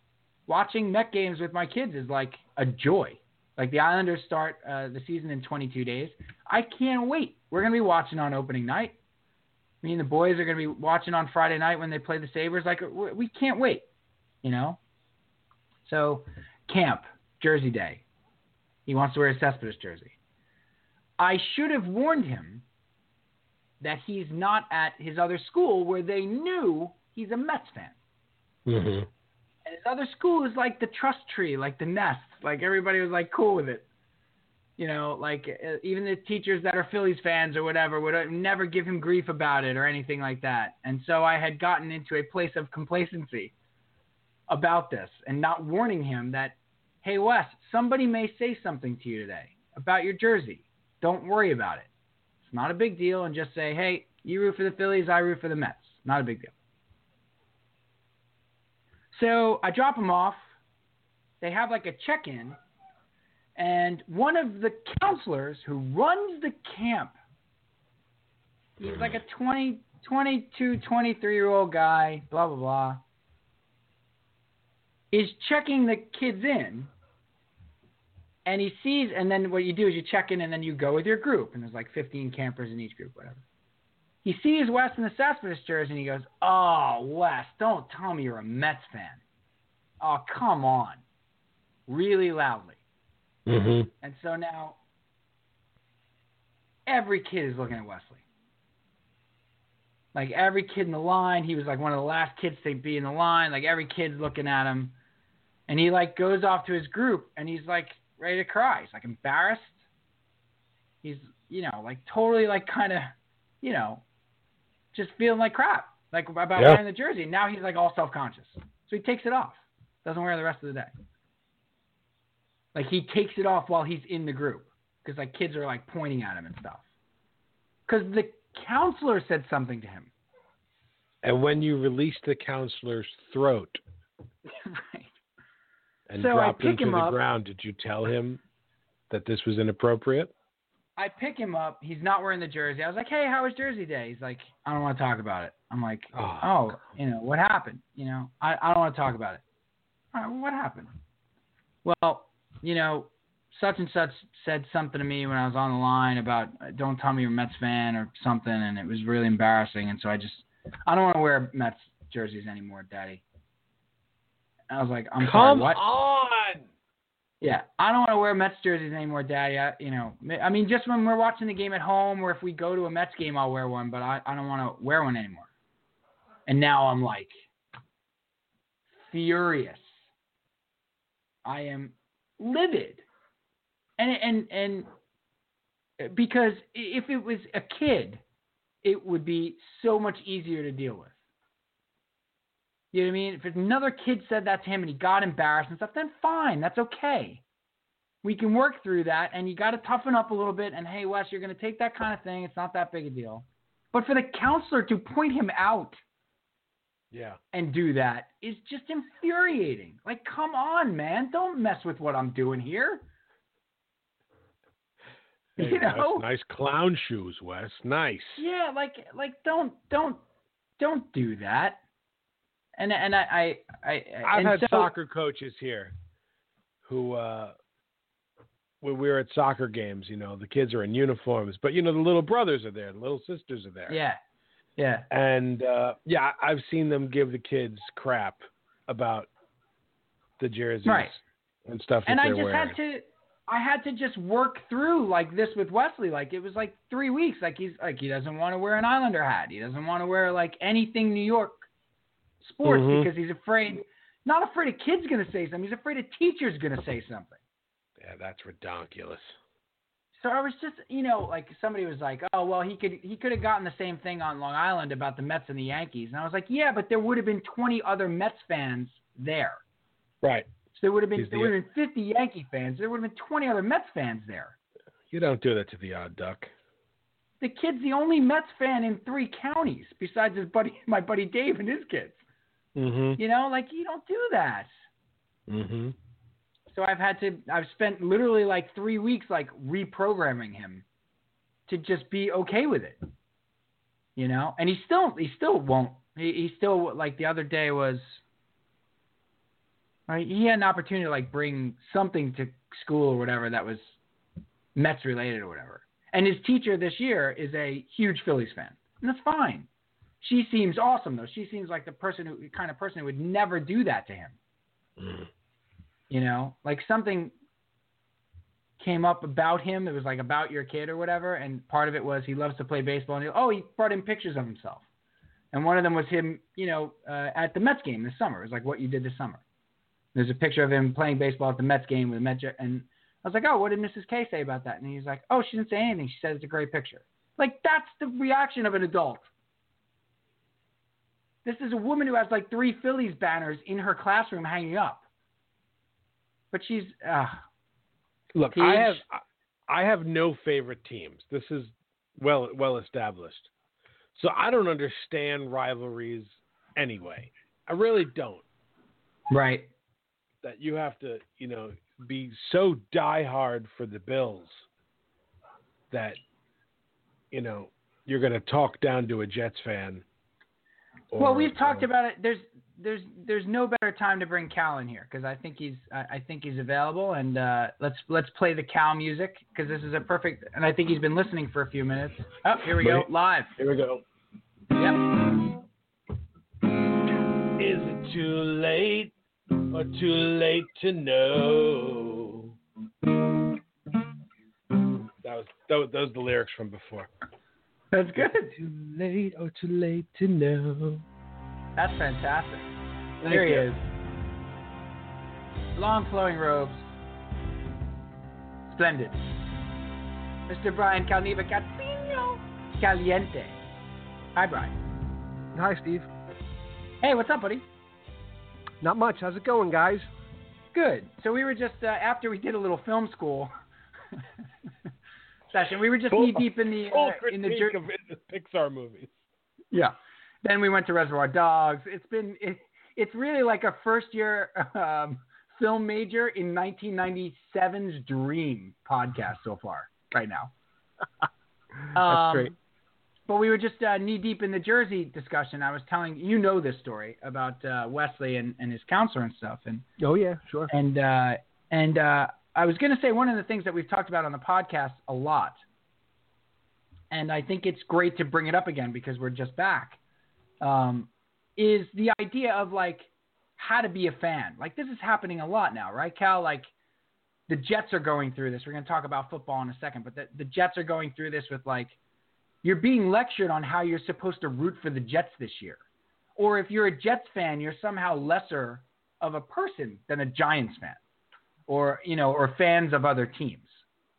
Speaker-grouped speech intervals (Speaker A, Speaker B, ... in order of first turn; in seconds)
Speaker A: 0.5-9.0, 9.8-13.8, 14.4-14.8, 15.8-18.0, 18.9-20.1, 21.2-22.6, 23.8-27.9, 29.6-33.9, 34.8-43.5, 44.5-51.9, 52.4-56.5, 59.1-60.4, 61.4-62.6, 63.5-67.2, 68.8-73.0, 75.1-76.9, 78.5-83.4, 84.2-89.2, 90.0-91.0, 91.9-92.8, 94.0-94.8, 96.9-98.2, 100.1-104.9, 105.7-109.8, 111.0-114.0, 114.9-120.9, 122.7-126.8, 127.9-130.1, 134.6-135.1, 136.1-137.2, 141.0-149.4, 150.1-150.9, 151.8-163.2, 164.7-165.8, 167.4-175.5, 176.5-177.3, 179.0-180.0, 181.4-183.0, 184.0-184.9, 186.0-188.2, 188.8-191.1, 192.9-197.4, 198.2-206.0, 207.5-213.1, 215.6-216.2, 218.3-220.2, 220.8-221.8, 222.8-224.9, 233.9-234.2, 234.8-235.1, 240.8-241.2, 242.1-251.7, 252.4-257.4, 260.2-269.6, 270.7-274.5, 277.4-282.2, 283.2-284.7, 286.7-290.8, 291.7-293.0, 294.1-298.2, 300.1-303.9, 304.7-309.7, 310.2-314.4, 316.1-317.3, 318.8-324.8, 325.5-329.4, 330.1-339.3, 341.4-345.0, 346.5-347.4, 348.5-349.0, 359.3-359.7, 371.2-383.5, 384.7-385.1, 397.9-398.6, 401.8-402.7, 403.3-403.8, 405.8-406.8, 408.7-409.2, 410.5-413.6, 414.4-414.7, 417.0-417.6, 420.7-423.5, 425.5-427.8, 429.7-440.5, 441.9-442.5, 443.3-449.9, 450.7-455.6, 457.1-460.0, 460.6-466.7, 467.5-471.9, 472.6-475.8, 476.4-481.0, 481.7-483.8
Speaker B: 28.6-29.1, 68.8-69.2, 93.5-93.9, 131.2-133.8, 136.1-138.4, 139.1-140.3, 146.1-146.8, 165.2-166.7, 207.1-207.4, 215.6-218.4, 224.2-225.9, 226.8-227.5, 228.8-234.0, 235.1-239.3, 240.4-242.8, 252.6-253.1, 258.0-259.4, 270.2-270.5, 271.1-271.5, 275.1-276.5, 282.7-283.2, 285.5-285.9, 315.0-315.3, 348.3-353.5, 354.1-358.4, 360.4-364.6, 365.9-366.2, 367.3-370.0, 371.1-371.9, 382.8-384.0, 387.6-389.1, 389.7-392.6, 395.2-397.1, 398.2-401.0, 403.2-403.7, 426.1-429.1
Speaker C: 415.5-416.1, 418.8-420.1, 442.0-442.5, 450.0-450.7